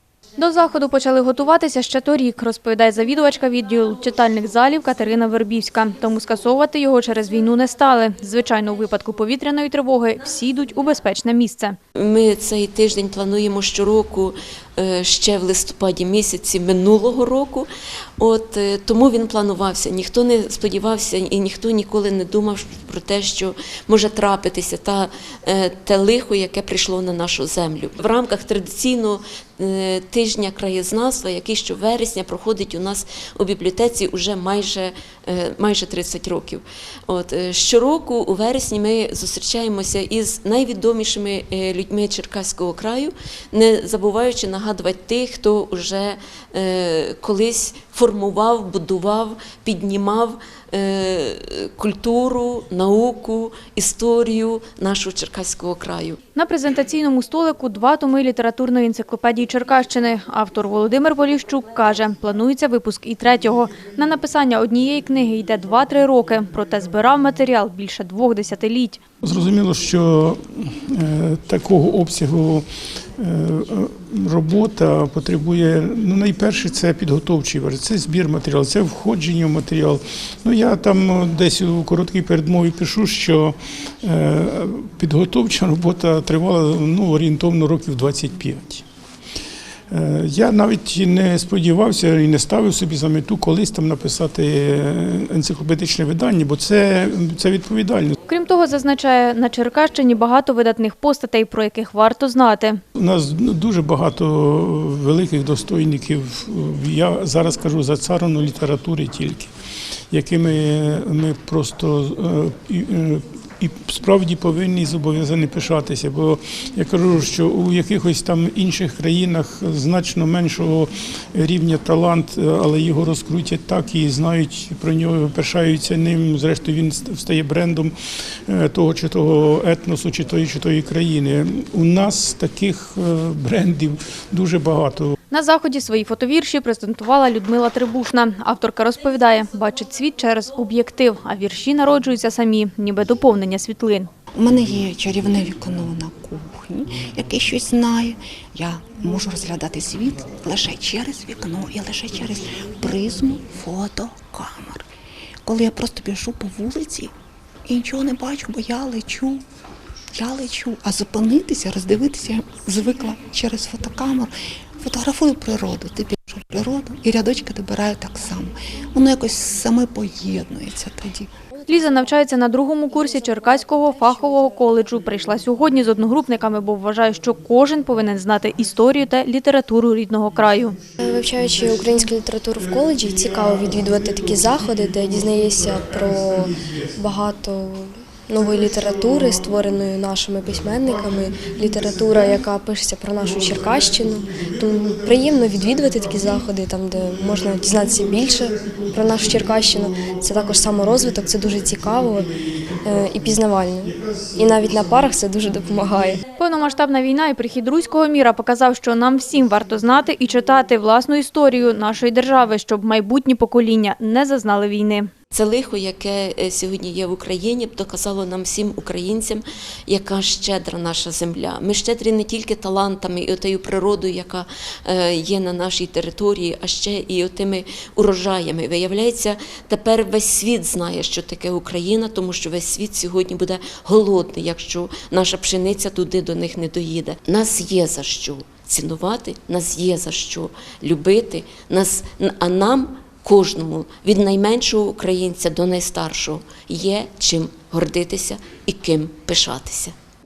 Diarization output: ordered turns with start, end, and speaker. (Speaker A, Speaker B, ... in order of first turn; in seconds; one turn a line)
Speaker A: 0.4-11.8
Speaker B: 12.0-17.7
Speaker B: 18.2-56.2
Speaker A: 56.4-69.0
Speaker C: 69.2-72.7
Speaker C: 73.2-88.8
Speaker C: 89.9-98.2
Speaker A: 98.3-102.8
Speaker C: 103.0-109.5
Speaker C: 110.1-127.9
Speaker C: 128.5-135.1
Speaker A: 135.3-144.1
Speaker D: 144.4-154.8
Speaker D: 155.4-157.1
Speaker D: 157.7-159.4
Speaker D: 160.2-171.3
Speaker A: 171.7-180.8
Speaker E: 181.0-202.3
Speaker C: 181.5-182.0
Speaker C: 182.6-187.0
Speaker C: 188.4-189.8
Speaker C: 190.4-192.5
Speaker C: 193.2-205.0
Speaker E: 202.8-206.2
Speaker A: 206.4-215.1
Speaker B: 215.3-249.9